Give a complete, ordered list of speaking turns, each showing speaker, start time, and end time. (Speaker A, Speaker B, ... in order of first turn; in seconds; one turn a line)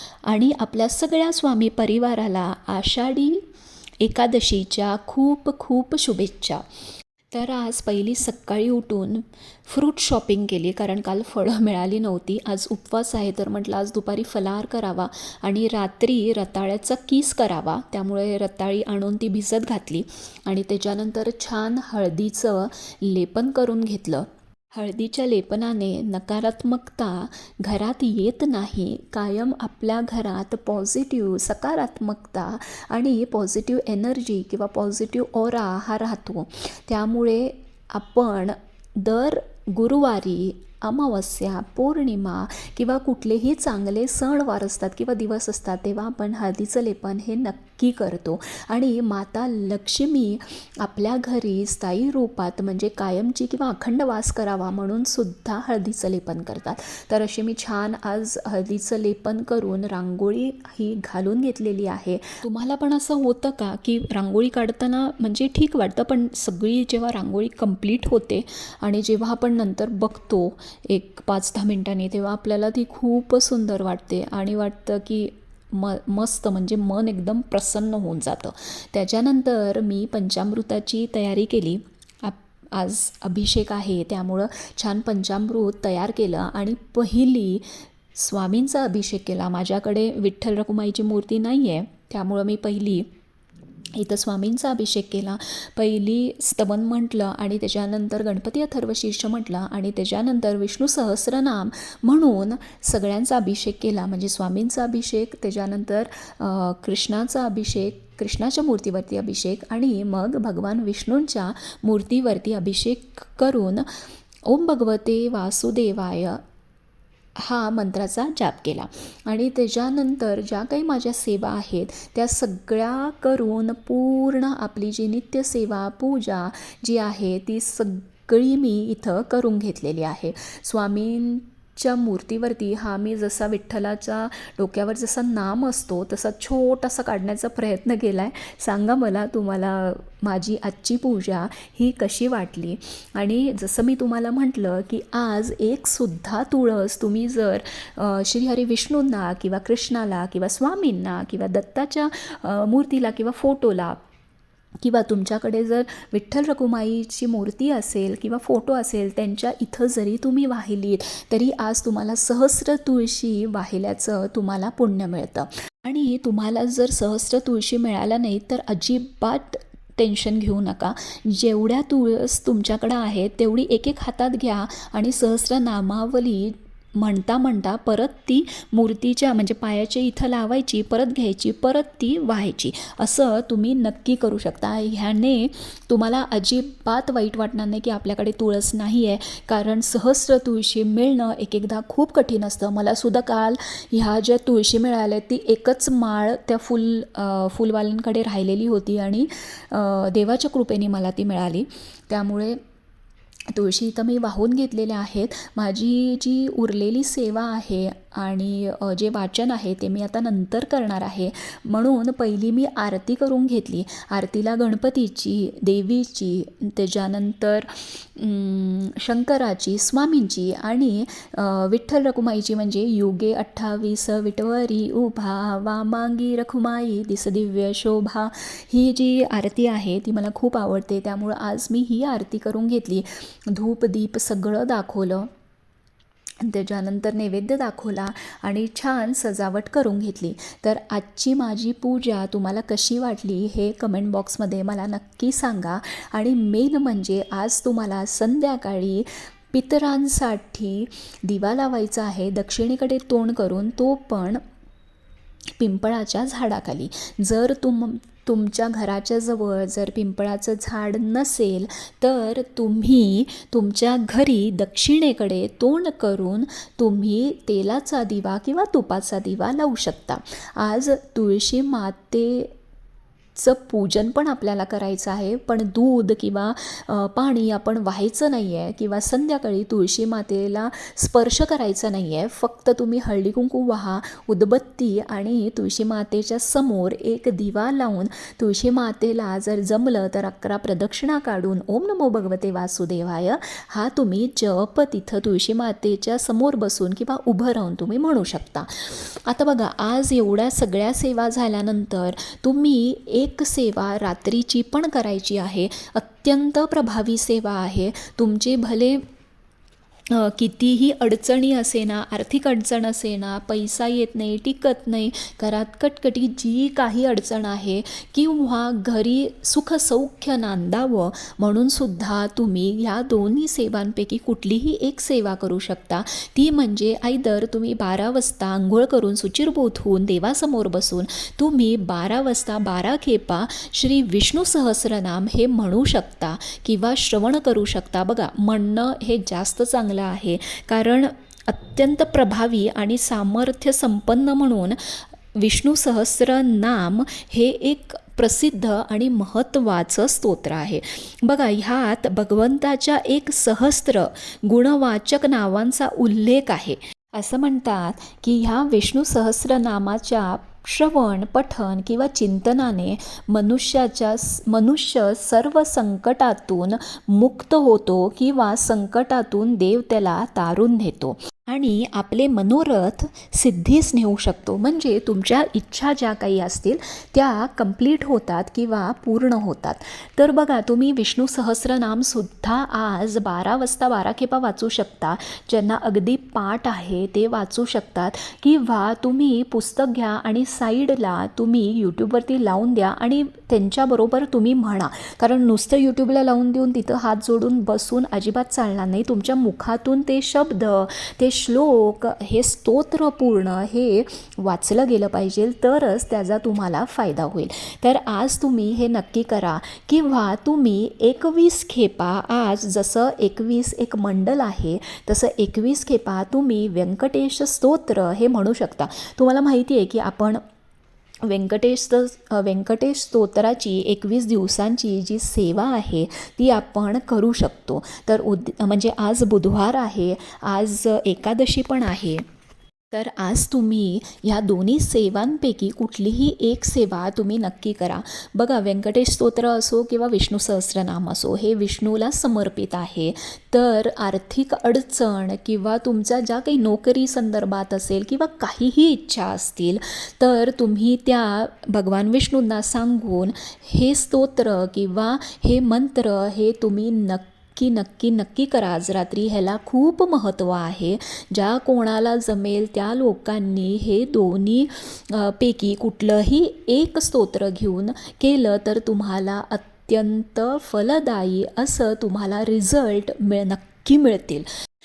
Speaker A: 0.3-3.4
Speaker A: 4.0-6.6
Speaker A: 7.3-93.1
Speaker A: 93.9-116.4
Speaker A: 117.4-154.0
Speaker A: 154.8-202.6
Speaker A: 203.5-235.3
Speaker A: 236.4-254.4
Speaker A: 255.6-272.5
Speaker A: 273.4-309.0
Speaker A: 310.1-420.4
Speaker A: 421.3-432.2
Speaker A: 432.9-474.5